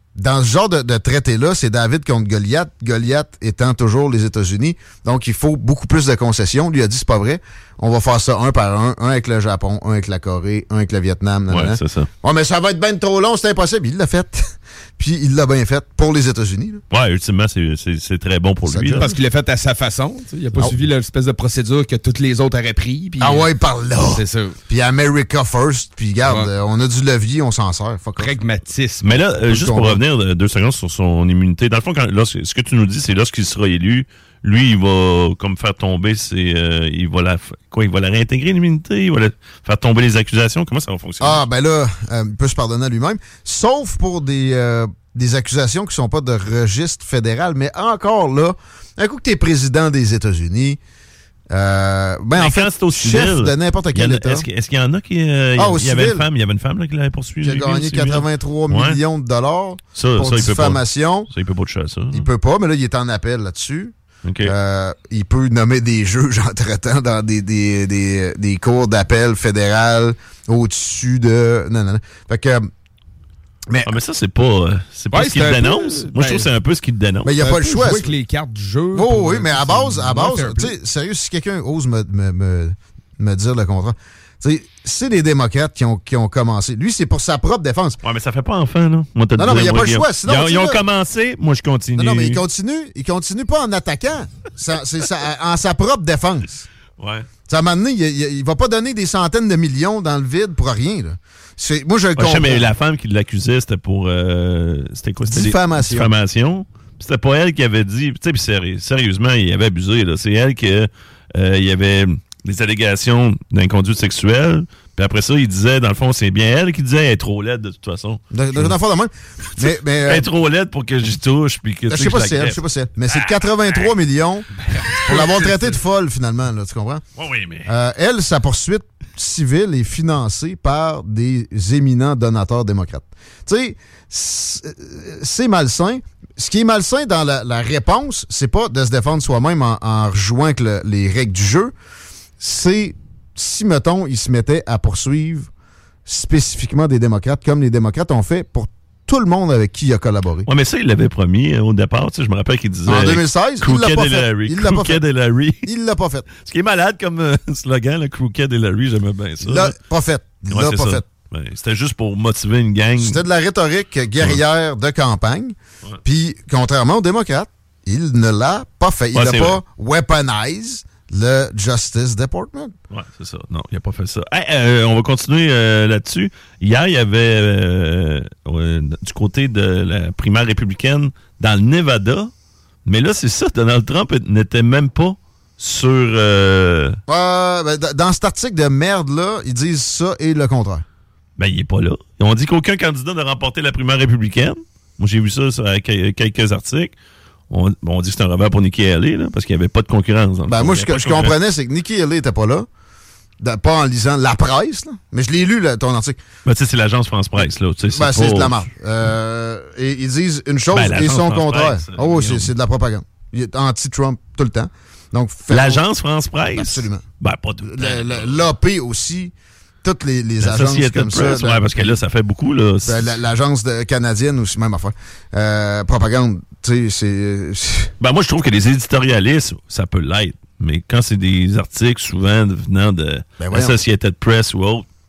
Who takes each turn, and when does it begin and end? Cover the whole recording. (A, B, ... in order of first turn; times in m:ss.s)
0:00.2-0:16.8 A
0:11.5-0:12.1 B
0:16.9-0:19.1 B
0:18.6-0:19.1 A
0:19.0-0:24.6 C
0:23.2-0:28.4 A
0:28.2-0:29.3 C
0:29.0-0:41.4 B
0:29.5-0:30.0 A
0:41.2-0:50.8 A
0:51.5-0:54.5 A
0:52.4-0:59.0 B
0:55.6-0:56.3 A
0:57.4-1:01.3 A
1:00.0-1:02.3 B
1:02.1-1:12.7 A
1:04.2-1:04.5 B
1:13.7-1:14.0 A
1:13.8-1:17.3 B
1:15.1-1:16.5 C
1:17.2-1:18.1 A
1:17.4-1:20.7 C
1:18.9-1:28.0 A
1:28.0-1:32.4 B
1:29.4-1:30.8 A
1:32.0-1:36.7 A
1:37.0-1:37.3 B
1:37.5-1:42.7 A
1:42.2-1:58.7 B
1:45.3-1:46.1 A
1:58.3-2:00.3 A
1:59.6-2:04.0 B
2:01.9-2:07.0 A
2:04.7-2:05.0 C
2:04.8-2:05.5 B
2:07.2-2:07.7 B
2:07.6-2:21.7 A
2:22.4-2:25.5 A
2:26.1-2:30.5 A
2:30.5-2:35.7 B
2:32.9-2:35.0 A
2:35.6-2:36.3 A
2:36.3-2:39.7 B
2:39.4-2:41.0 A
2:40.5-2:43.2 B
2:43.0-2:52.8 A
2:49.1-2:49.6 B
2:52.9-3:02.3 B
3:02.9-3:07.0 B
3:07.1-3:10.8 A
3:11.4-3:16.9 B
3:17.5-3:21.3 B
3:20.5-3:22.7 A
3:23.4-3:26.2 A
3:26.4-3:28.6 B
3:27.9-3:35.8 A
3:30.7-3:32.5 B
3:35.5-3:38.4 B
3:36.5-3:37.0 A
3:37.6-3:42.0 A
3:40.4-3:43.2 B
3:42.8-3:47.9 A
3:48.0-3:54.9 B
3:53.4-3:53.8 A